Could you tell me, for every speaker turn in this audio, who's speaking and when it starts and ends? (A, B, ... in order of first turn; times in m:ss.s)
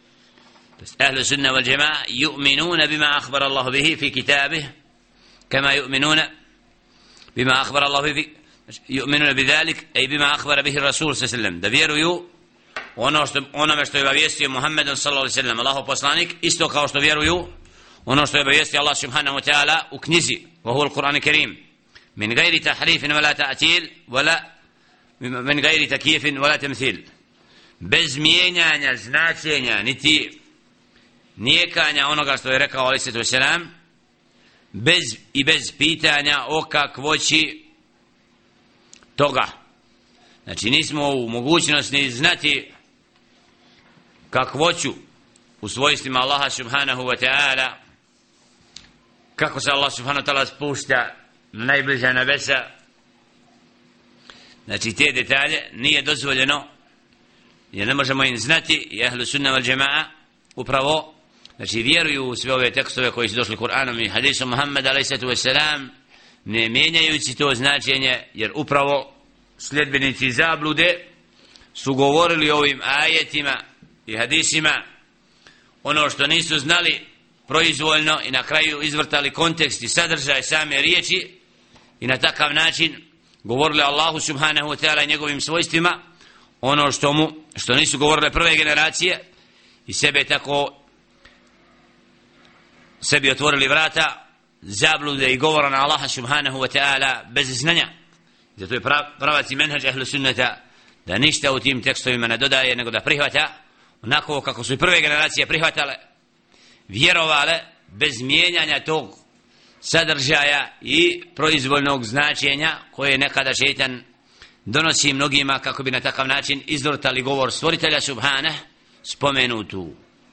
0:00.8-0:04.7 A
0:05.5-0:06.3 A
0:07.3-0:12.3 A
0:13.0-0:17.5 A
0:18.0-0:21.6 A
0:22.2-0:24.4 A
0:25.2-0:27.1 A
0:27.8-0:30.4 A
0:31.4-0:33.7 A
0:34.7-0:37.6 A
0:39.2-0:39.5 A
0:40.4-0:42.7 A
0:44.3-0:45.0 A
0:45.6-0:47.8 A
0:49.4-0:52.7 A
0:54.6-0:56.7 A
0:57.7-1:05.9 A
1:06.4-1:11.0 A
1:11.7-1:14.8 A
1:15.8-1:21.4 A
1:22.0-1:26.0 A
1:26.6-1:29.2 A
1:29.8-1:30.8 A
1:33.0-1:37.9 A
1:38.6-1:46.0 A
1:46.9-1:49.2 A
1:49.8-1:54.0 A
1:54.6-2:00.0 A